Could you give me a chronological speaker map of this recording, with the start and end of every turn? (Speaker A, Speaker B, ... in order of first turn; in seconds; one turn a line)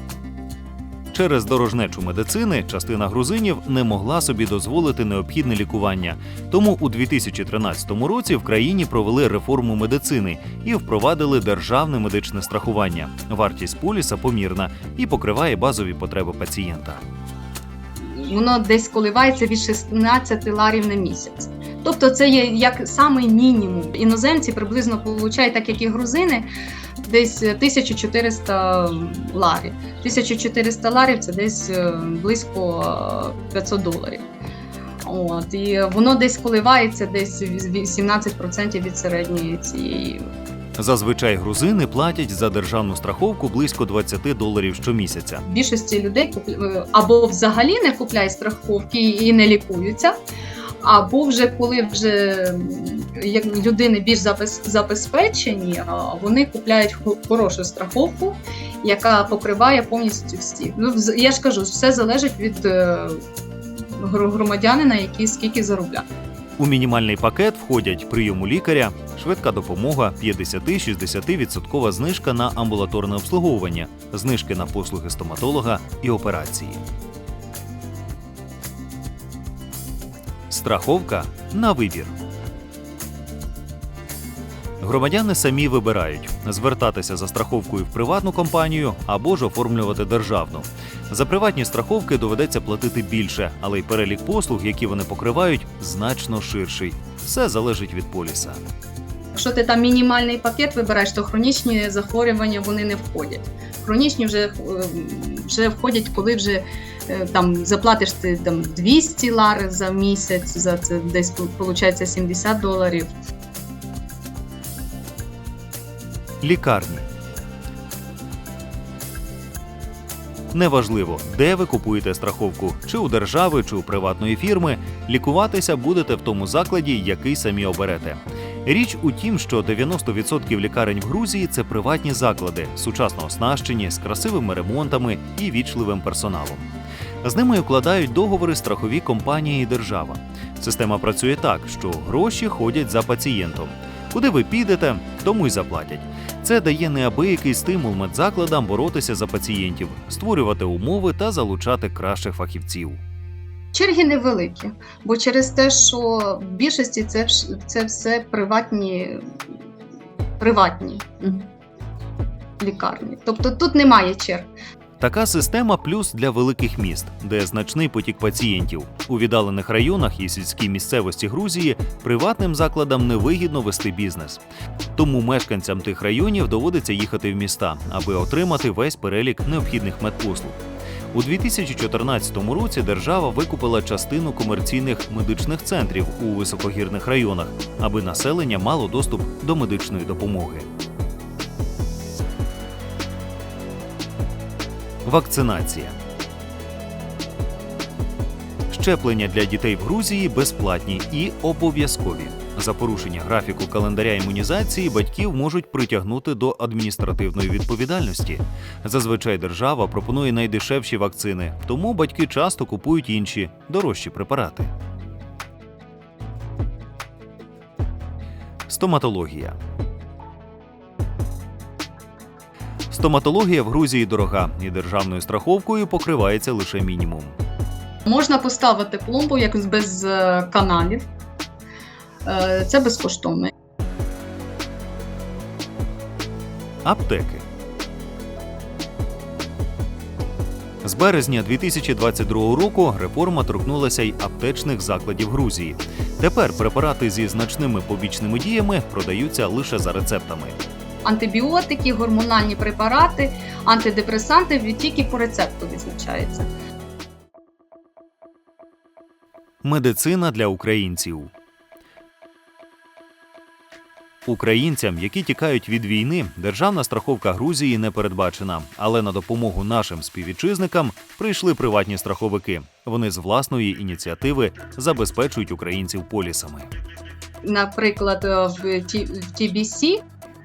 Speaker A: 1.1-17.0
Speaker B: 18.0-26.5
Speaker B: 27.0-34.3
Speaker B: 35.0-40.2
Speaker A: 40.8-45.4
Speaker B: 45.5-50.1
Speaker B: 50.8-66.1
Speaker A: 66.6-76.8
Speaker A: 80.5-82.1
Speaker A: 84.8-98.6
Speaker B: 99.3-113.1
Speaker A: 116.4-117.1
Speaker A: 120.5-136.7
Speaker A: 137.2-153.0
Speaker B: 153.7-159.2
Speaker B: 160.4-161.5
Speaker B: 162.6-164.5
Speaker A: 165.0-174.4
Speaker A: 174.9-180.6
Speaker A: 181.1-190.7
Speaker A: 195.0-196.0
Speaker A: 198.7-214.7
Speaker A: 218.7-219.6
Speaker A: 222.9-227.4
Speaker B: 228.1-231.1
Speaker B: 232.2-233.5
Speaker A: 236.8-237.4
Speaker A: 240.8-250.6
Speaker B: 251.0-256.5
Speaker A: 259.6-261.3
Speaker A: 264.2-276.7
Speaker B: 277.4-280.0